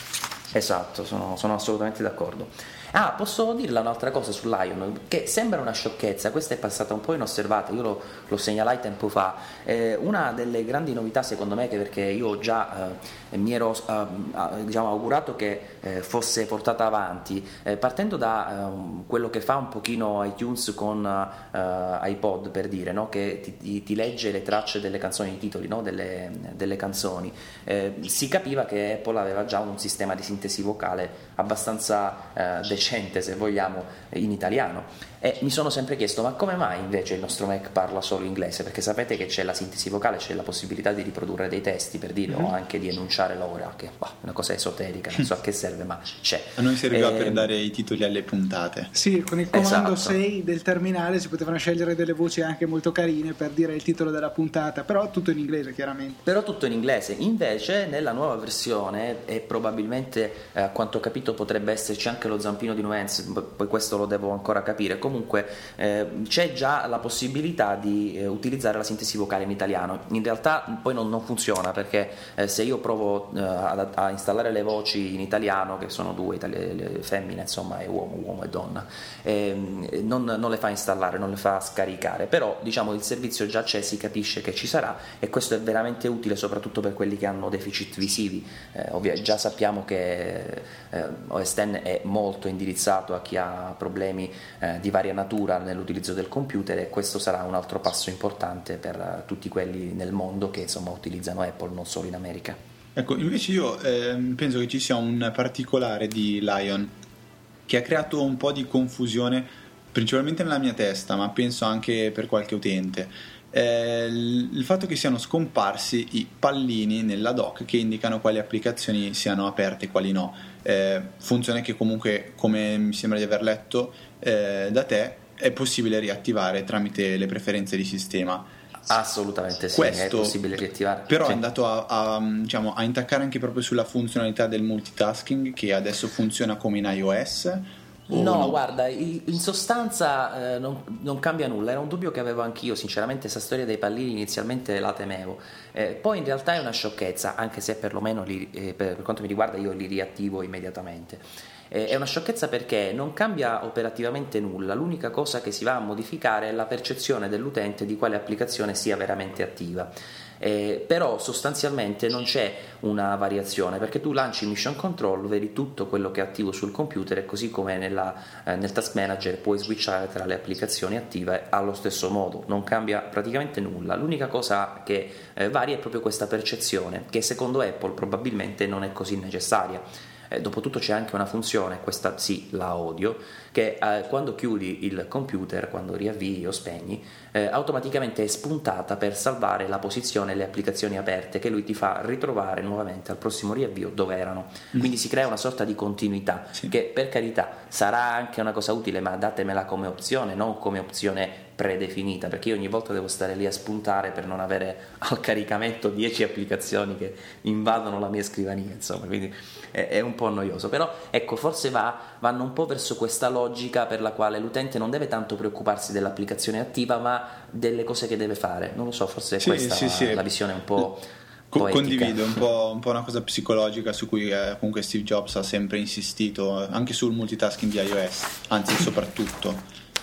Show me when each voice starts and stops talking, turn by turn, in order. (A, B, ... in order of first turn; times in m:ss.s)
0:00.5-0:47.5 A
0:46.6-0:48.9 B
0:48.9-0:56.2 C
0:49.5-0:50.2 A
0:56.2-1:42.6 A
1:43.0-1:46.9 B
1:47.7-2:08.5 B
2:08.9-2:11.4 A
2:09.7-2:10.4 B
2:11.1-2:18.6 B
2:18.1-3:42.3 A
3:39.4-3:40.3 B
3:41.5-3:49.6 B